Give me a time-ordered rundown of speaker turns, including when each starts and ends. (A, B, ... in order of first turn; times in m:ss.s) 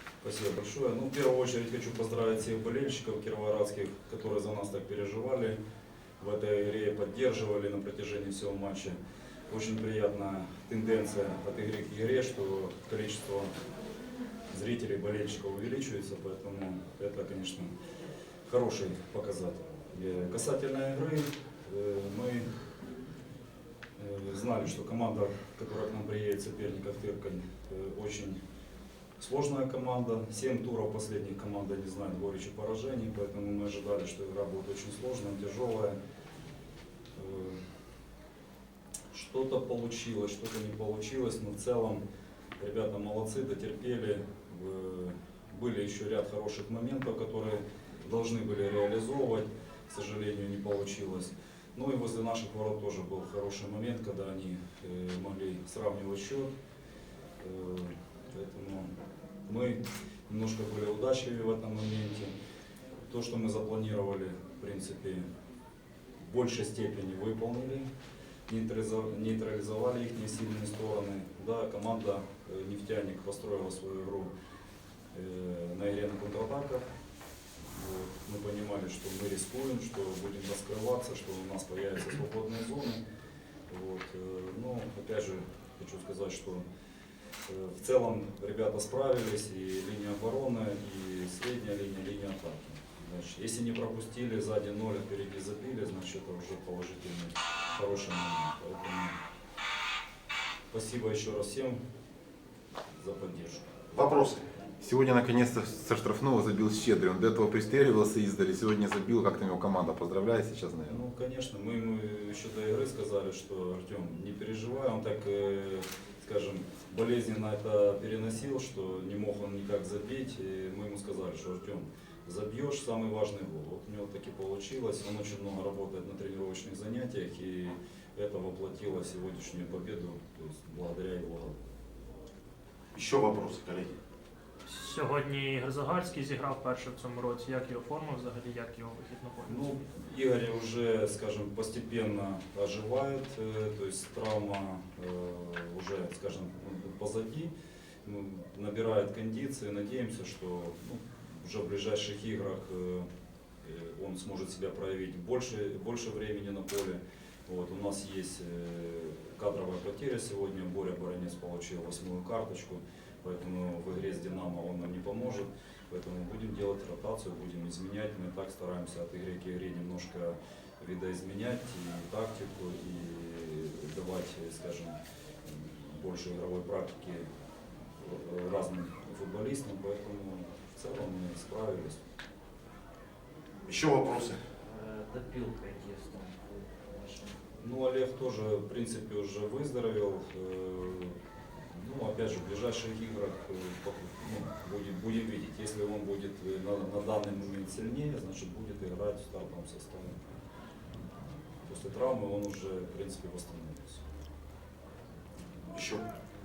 0:00.2-0:05.6 A
0:06.2-0:09.0 A
0:09.5-0:13.5 A
0:14.5-0:17.7 A
0:18.5-0:22.4 A
0:24.0-0:28.4 A
0:29.2-0:36.0 A
0:37.1-0:37.6 A
0:39.1-0:42.0 A
0:42.6-0:56.5 A
0:57.4-0:58.9 A
0:59.4-1:02.3 A
1:03.0-1:05.2 A
1:06.2-1:07.9 A
1:08.5-1:14.3 A
1:15.1-1:16.8 A
1:17.7-1:23.0 A
1:23.7-1:26.6 A
1:27.4-1:39.2 A
1:40.7-1:41.8 A
1:43.0-1:43.7 A
1:43.9-1:44.4 B
1:44.8-1:51.0 C
1:50.8-2:11.5 A
2:12.9-2:13.9 B
2:14.6-2:20.0 D
2:19.4-2:27.5 A
2:28.0-2:33.1 A
2:33.6-2:57.3 A
2:58.0-3:02.0 A
3:03.6-3:04.4 B
3:04.6-3:07.4 E
3:07.6-3:11.2 A
3:11.7-3:20.2 A
3:21.6-3:24.0 A
3:25.7-3:26.0 B